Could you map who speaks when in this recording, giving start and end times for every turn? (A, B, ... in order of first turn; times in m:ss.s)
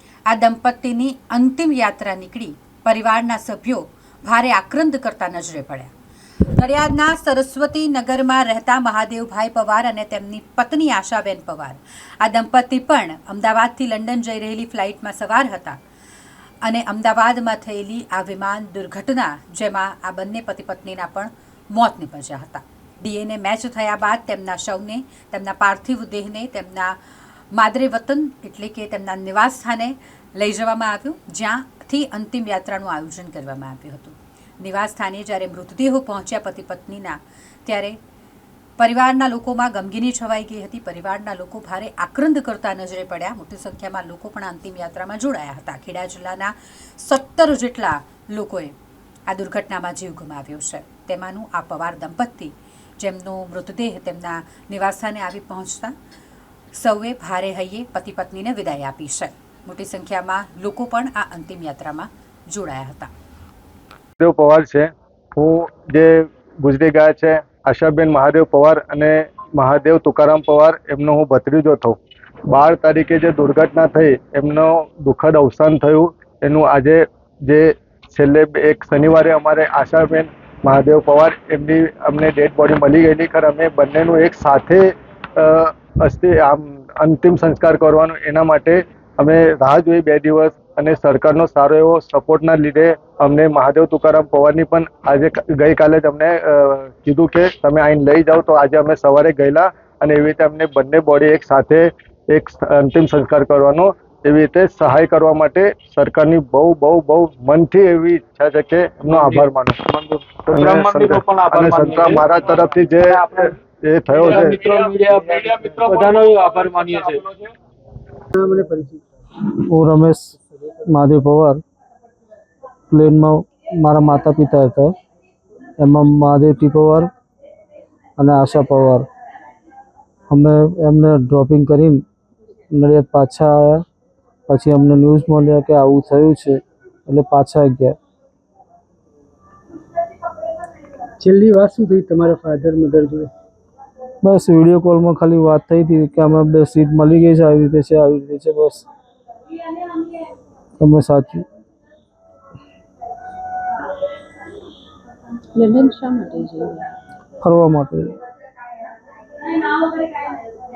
0:00.3-0:05.9 A
0:06.4-0:15.8 A
0:16.6-0:27.0 A
0:27.5-0:38.0 A
0:38.8-0:48.7 A
0:49.3-0:55.9 A
0:56.7-1:03.1 A
1:04.2-1:12.0 B
1:12.5-1:24.8 B
1:25.4-1:49.8 B
1:49.1-1:53.5 C
1:50.5-1:54.7 B
1:54.1-1:57.3 C
1:58.3-1:59.0 D
1:59.5-2:00.3 E
2:00.9-2:01.6 E
2:02.9-2:04.9 E
2:05.8-2:07.1 E
2:08.2-2:09.1 E
2:10.3-2:12.0 E
2:12.7-2:13.8 E
2:14.5-2:16.6 E
2:17.1-2:17.9 E
2:21.2-2:23.3 D
2:24.3-2:28.8 E
2:30.8-2:31.4 E
2:35.5-2:36.9 F
2:37.4-2:38.2 E
2:39.4-2:40.4 F